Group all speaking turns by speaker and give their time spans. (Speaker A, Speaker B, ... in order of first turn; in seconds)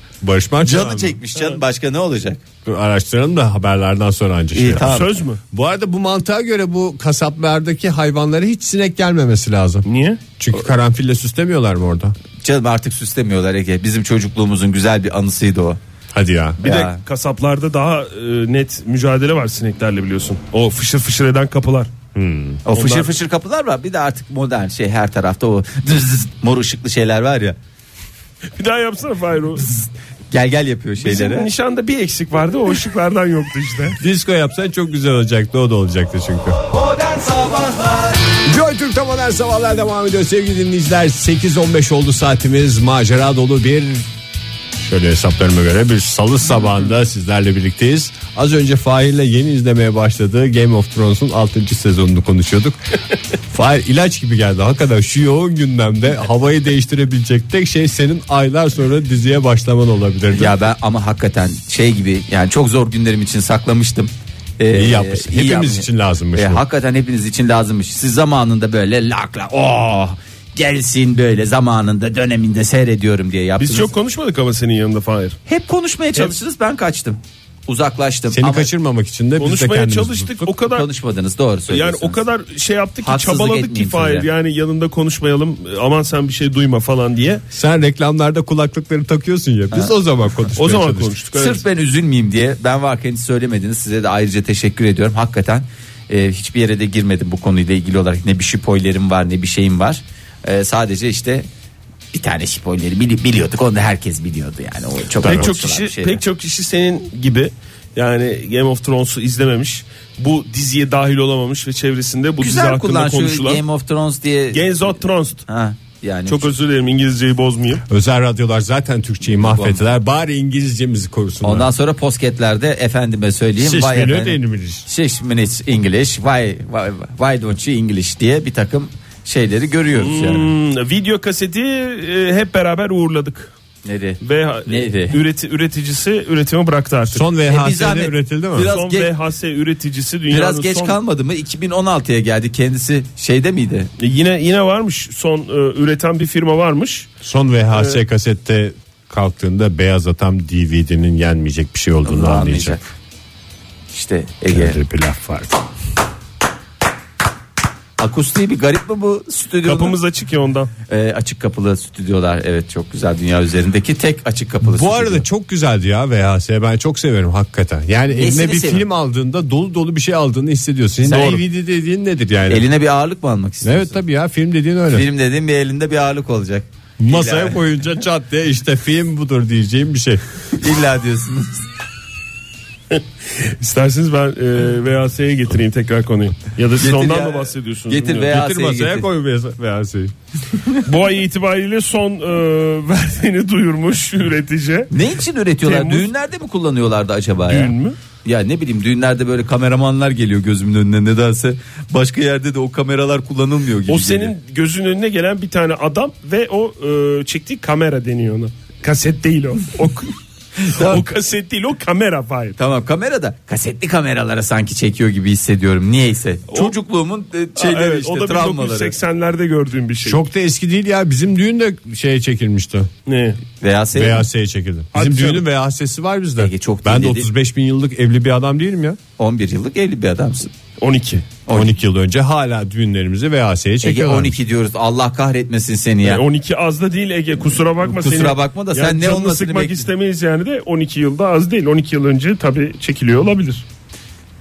Speaker A: 0.2-1.2, 2.6-5.0, 5.5-9.8, 10.4-12.2, 16.1-16.6, 22.1-22.6, 34.0-36.6, 38.5-44.1, 44.8-52.8, 53.5-60.5, 64.7-66.6, 78.3-80.5, 87.5-91.1, 105.2-105.5, 117.9-121.7, 123.6-124.9, 137.1-138.7, 147.2-152.8, 154.5-155.6, 164.6-172.7, 173.6-175.1, 177.0-180.2, 188.3-190.1, 220.1-222.9, 223.9-229.0, 231.5-234.4
Speaker B: 0.6-2.4, 4.5-5.1, 12.4-15.8, 16.6-17.0, 22.6-27.6, 30.3-31.5, 36.9-38.1, 60.3-73.9, 75.5-78.7, 80.6-82.2, 83.0-84.3, 91.3-101.5, 102.1-106.2, 112.4-114.9, 115.5-116.5, 119.3-119.8, 121.4-130.5, 133.8-135.2, 137.5-139.1, 140.3-143.9, 152.1-152.8, 153.9-154.8, 158.0-160.0, 160.9-165.2, 168.1-168.8, 171.0-171.4, 172.5-174.0, 174.9-177.6, 180.5-181.7, 186.8-189.1, 194.9-204.3, 210.6-211.0, 212.6-219.0, 223.6-224.2, 226.4-227.3, 229.2-230.5, 231.5-231.8, 233.8-236.2, 237.8-239.9
Speaker C: 4.8-5.4, 9.8-10.2, 16.6-21.9, 22.7-23.1, 28.6-29.7, 31.0-34.0, 73.6-75.4, 79.4-80.9, 81.7-87.4, 90.6-91.6, 105.2-113.6, 114.5-115.5, 116.3-117.8, 129.9-133.5, 134.2-137.2, 138.6-141.0, 144.0-147.1, 147.7-148.0, 159.7-160.7, 182.9-188.3, 190.8-194.9, 195.6-196.1, 197.5-198.0, 203.9-210.2, 210.7-212.6, 216.5-216.8, 217.6-220.2, 223.1-223.4, 224.9-225.4, 230.8-231.3, 236.0-243.6